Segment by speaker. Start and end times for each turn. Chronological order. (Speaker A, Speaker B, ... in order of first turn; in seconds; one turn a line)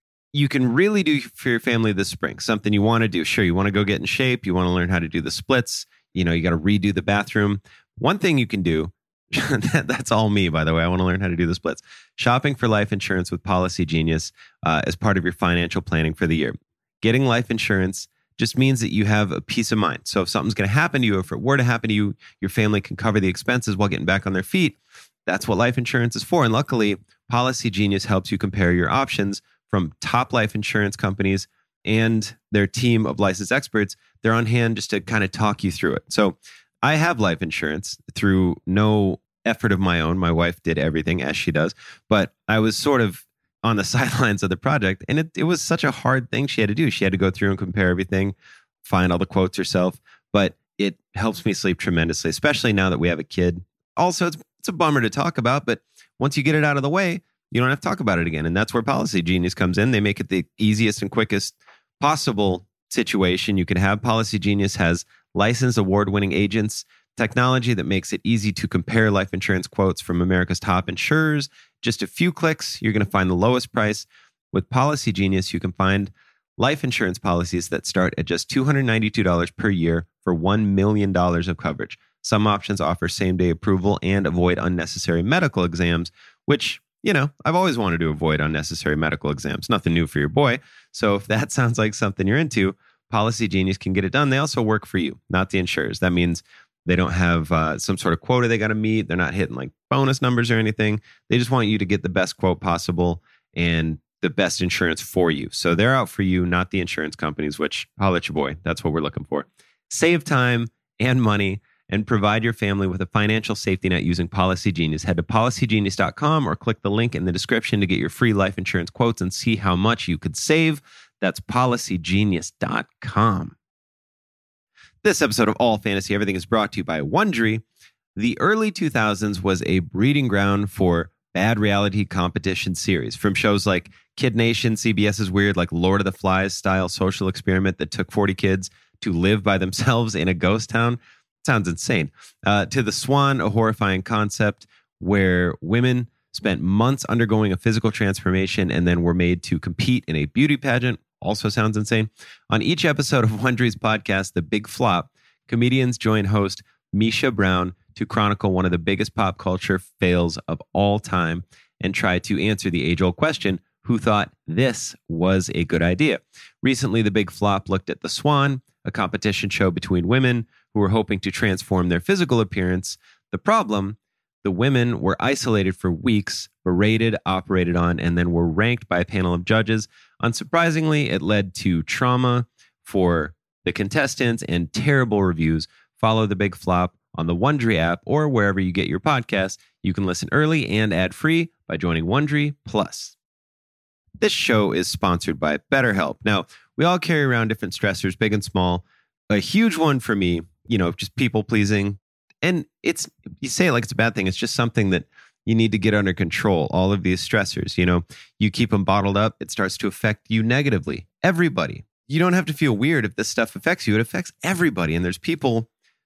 Speaker A: 0.3-123.5
Speaker A: 125.0-127.6
Speaker A: 128.2-193.1
Speaker A: 194.2-215.7